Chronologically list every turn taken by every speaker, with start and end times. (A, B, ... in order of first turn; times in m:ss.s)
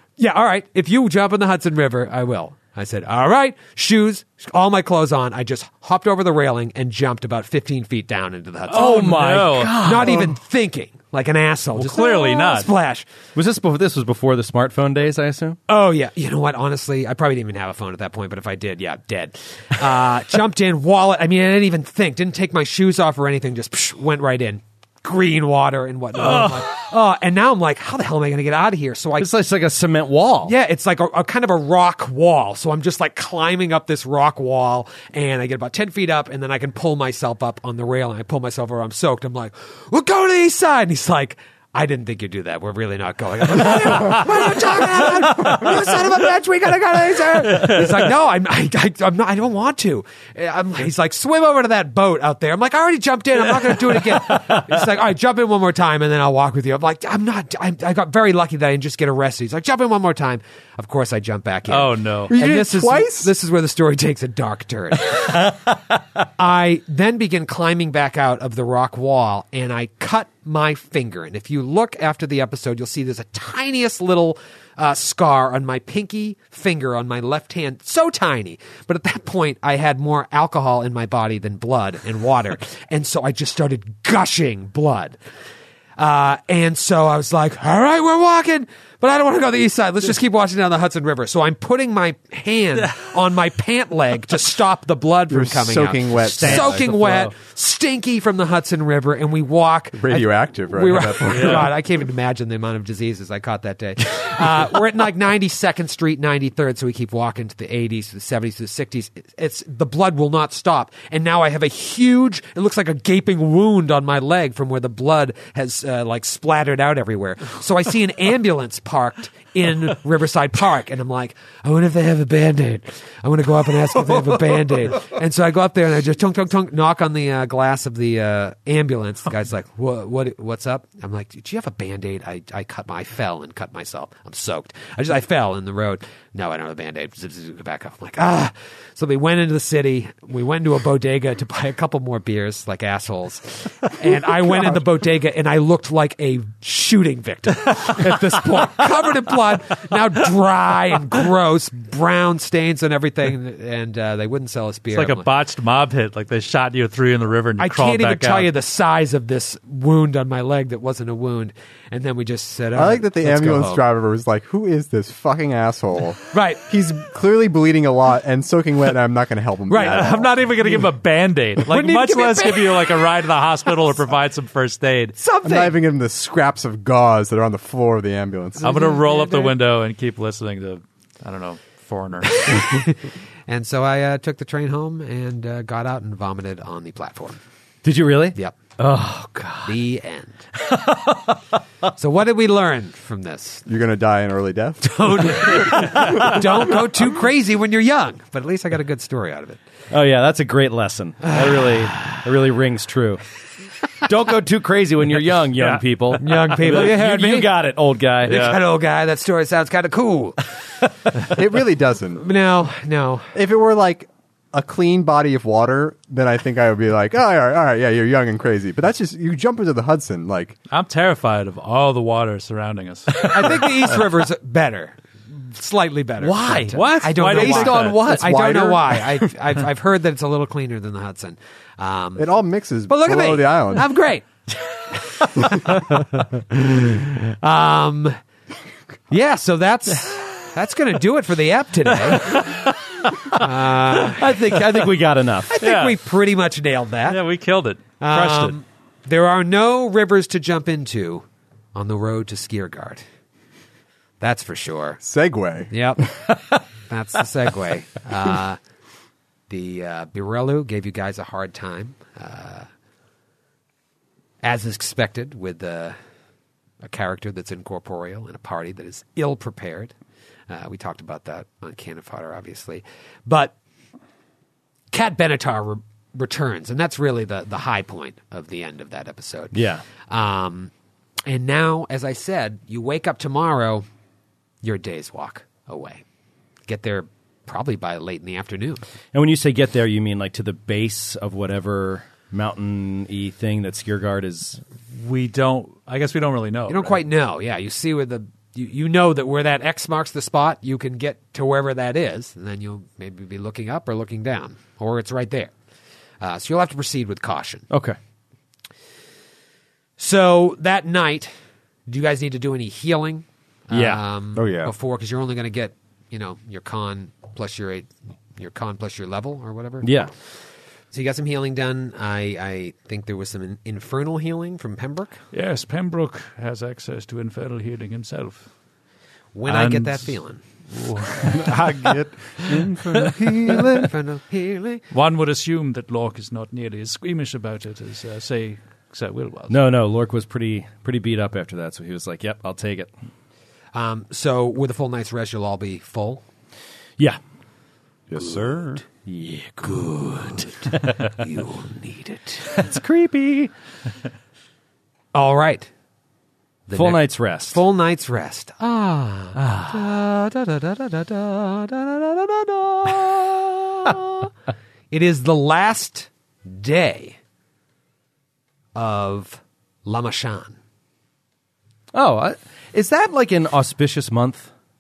0:00.2-0:13.1 A
0:08.7-0:10.3 B
0:08.7-0:10.4 C
0:11.8-0:12.7 B
0:13.4-0:15.6 C
0:15.7-0:29.3 A
0:26.2-0:26.7 C
0:29.2-0:30.6 C
0:30.4-1:05.5 A
1:01.7-1:02.3 B
1:02.3-1:03.3 D
1:06.4-1:25.2 A
1:26.0-2:35.3 A
1:35.3-1:36.8 D
1:36.3-1:37.3 C
1:39.9-1:41.7 D
1:41.3-1:41.7 B
2:34.9-2:38.5 B
2:37.6-2:43.8 A
2:42.7-2:50.3 D
2:46.3-2:46.6 A
2:49.7-2:50.2 A
2:49.8-2:55.2 B
2:51.7-2:53.1 A
2:55.2-2:55.8 A
2:55.4-2:58.9 D
2:58.6-2:59.5 A
2:58.6-3:02.8 B
3:02.5-3:07.4 A
3:07.8-3:09.8 C
3:09.6-3:10.5 A
3:10.6-3:11.4 C
3:12.0-3:13.7 A
3:13.7-3:16.8 D
3:14.8-3:19.6 A
3:19.9-3:23.4 C
3:24.0-3:28.6 C
3:25.6-3:26.9 B
3:26.2-3:27.5 A
3:28.2-3:30.5 A
3:28.3-3:28.6 B
3:31.3-3:32.2 D
3:32.2-3:33.3 A
3:33.3-3:40.6 D
3:40.7-3:44.1 B
3:43.2-3:52.3 A
3:46.2-3:48.2 B
3:46.4-3:48.5 C
3:48.0-3:49.3 D
3:52.2-3:53.9 D
3:52.9-3:54.3 A
3:54.9-3:56.0 A
3:55.5-3:56.0 D
3:56.5-3:58.2 A
3:59.1-4:02.6 A
4:03.3-4:04.4 A
4:03.3-4:05.5 C
4:05.5-4:07.2 A
4:05.6-4:06.0 B
4:07.1-4:08.6 B
4:08.0-4:13.0 A
4:14.2-4:15.0 A
4:15.0-4:15.7 D
4:15.7-4:18.6 A
4:19.5-4:22.7 A
4:24.4-4:26.0 A
4:26.8-4:29.9 A
4:30.5-4:33.6 A
4:34.9-4:40.7 A
4:39.5-4:39.8 C
4:41.3-4:43.9 A
4:44.6-4:46.0 A
4:46.7-4:48.8 A
4:49.1-4:54.6 C
4:54.9-4:57.0 B
4:56.7-5:05.5 A
5:06.2-5:07.7 A
5:07.7-5:08.0 C
5:10.0-5:11.3 A
5:11.9-5:20.1 A
5:13.7-5:14.0 C
5:14.4-5:14.7 E
5:19.8-5:20.1 C
5:20.9-5:25.2 A
5:25.3-5:28.5 B
5:29.4-5:30.4 A
5:29.5-5:30.2 B
5:30.7-5:31.6 B
5:31.3-5:33.9 E
5:33.5-5:34.8 A
5:34.9-5:39.6 B
5:39.5-5:42.9 C
5:43.7-5:46.2 A
5:48.1-5:48.8 E
5:49.0-5:50.9 C
5:50.0-5:52.7 A
5:52.5-5:53.5 C
5:55.1-5:55.7 A
5:56.7-6:04.3 A
5:56.7-5:57.6 C
5:59.4-5:59.8 C
6:04.9-6:07.2 A
6:08.8-6:10.6 A
6:11.9-6:14.5 C